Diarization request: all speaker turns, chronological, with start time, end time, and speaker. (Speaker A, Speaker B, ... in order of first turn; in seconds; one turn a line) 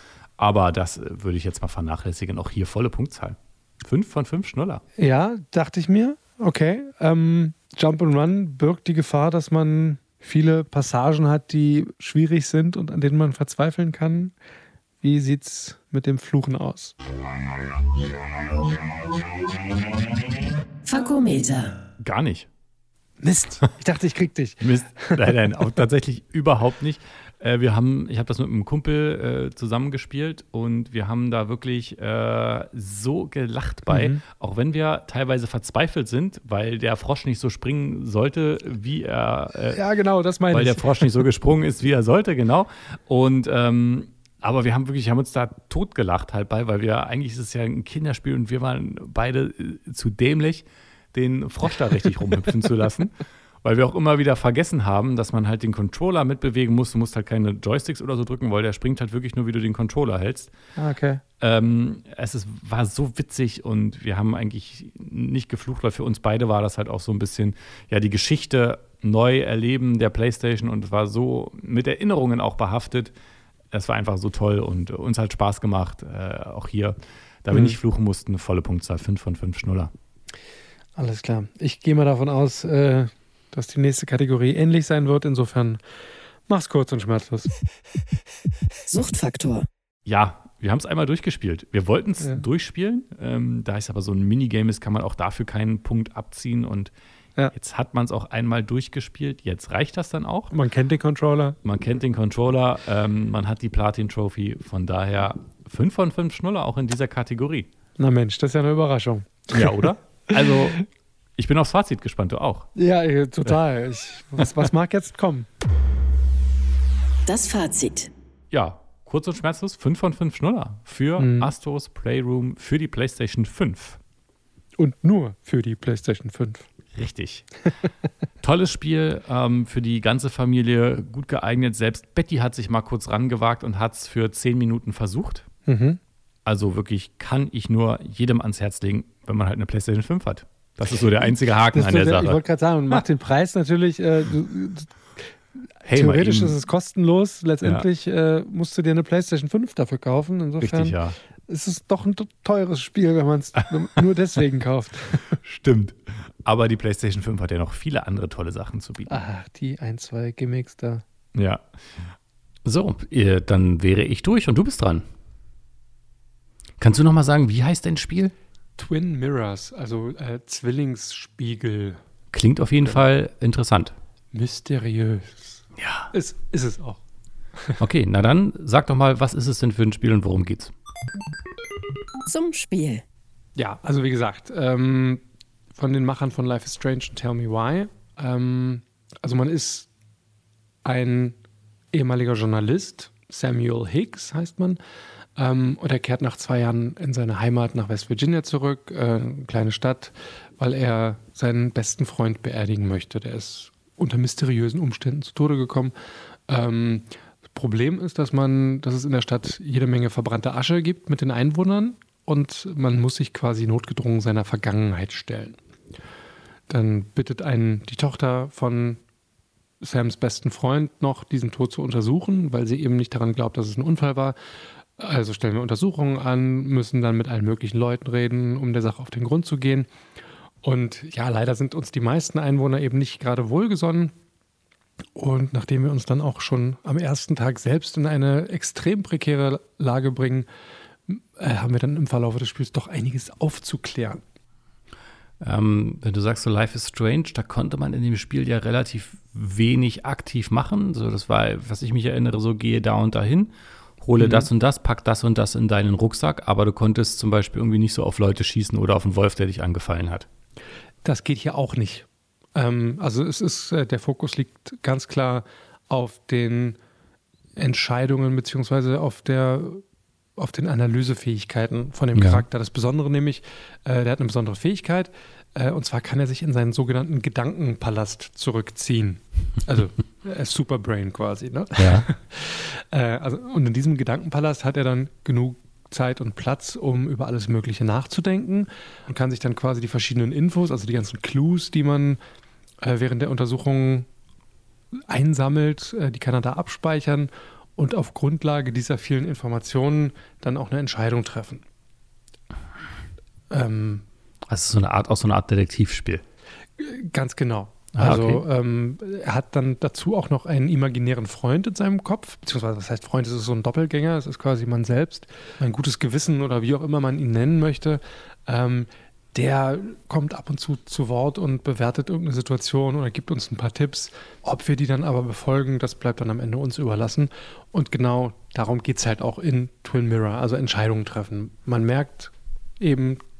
Speaker A: 0.4-4.8
Speaker B: 5.0-14.3
Speaker B: 15.0-16.9
Speaker C: 20.8-21.8
Speaker A: 22.0-22.5
Speaker B: 23.2-25.8
Speaker A: 24.6-39.8
Speaker B: 33.9-34.2
Speaker B: 39.7-41.1
Speaker A: 40.5-60.5
Speaker B: 60.8-61.2
Speaker A: 61.4-73.1
Speaker A: 73.7-79.9
Speaker B: 77.5-77.8
Speaker B: 81.0-85.8
Speaker B: 86.5-87.5
Speaker C: 88.9-89.7
Speaker A: 90.0-96.9
Speaker B: 92.2-92.5
Speaker A: 97.5-100.5
Speaker B: 100.5-101.6
Speaker A: 101.6-107.7
Speaker B: 108.0-110.7
Speaker A: 109.5-110.8
Speaker A: 111.4-112.7
Speaker B: 112.8-115.5
Speaker C: 117.2-118.1
Speaker A: 118.5-124.0
Speaker B: 121.2-121.5
Speaker B: 124.8-126.7
Speaker A: 126.9-127.6
Speaker A: 128.4-135.4
Speaker B: 135.7-136.0
Speaker A: 136.4-143.0
Speaker B: 141.2-144.9
Speaker A: 145.8-146.6
Speaker B: 145.9-155.3
Speaker A: 150.6-151.2
Speaker A: 155.3-159.2
Speaker B: 159.1-161.0
Speaker A: 161.3-161.6
Speaker A: 162.6-165.0
Speaker A: 166.8-168.3
Speaker B: 168.8-172.0
Speaker A: 172.3-173.9
Speaker B: 174.3-177.0
Speaker A: 175.8-176.1
Speaker A: 177.8-180.7
Speaker C: 182.2-183.0
Speaker B: 183.6-185.2
Speaker B: 185.7-189.9
Speaker B: 190.8-191.4
Speaker B: 191.9-194.8
Speaker B: 195.3-205.9
Speaker B: 206.5-215.6
Speaker B: 216.7-219.0
Speaker B: 219.8-224.4
Speaker B: 225.0-229.9
Speaker B: 230.6-234.1
Speaker B: 235.1-240.5
Speaker B: 241.1-244.2
Speaker A: 245.4-260.3
Speaker B: 254.2-254.5
Speaker B: 261.0-266.8
Speaker B: 267.6-269.8
Speaker B: 270.4-292.2
Speaker A: 272.1-272.4
Speaker A: 281.8-282.1
Speaker B: 292.8-294.1
Speaker B: 294.9-301.6
Speaker B: 303.5-304.0
Speaker A: 304.5-306.2
Speaker B: 306.8-333.2
Speaker A: 308.0-308.4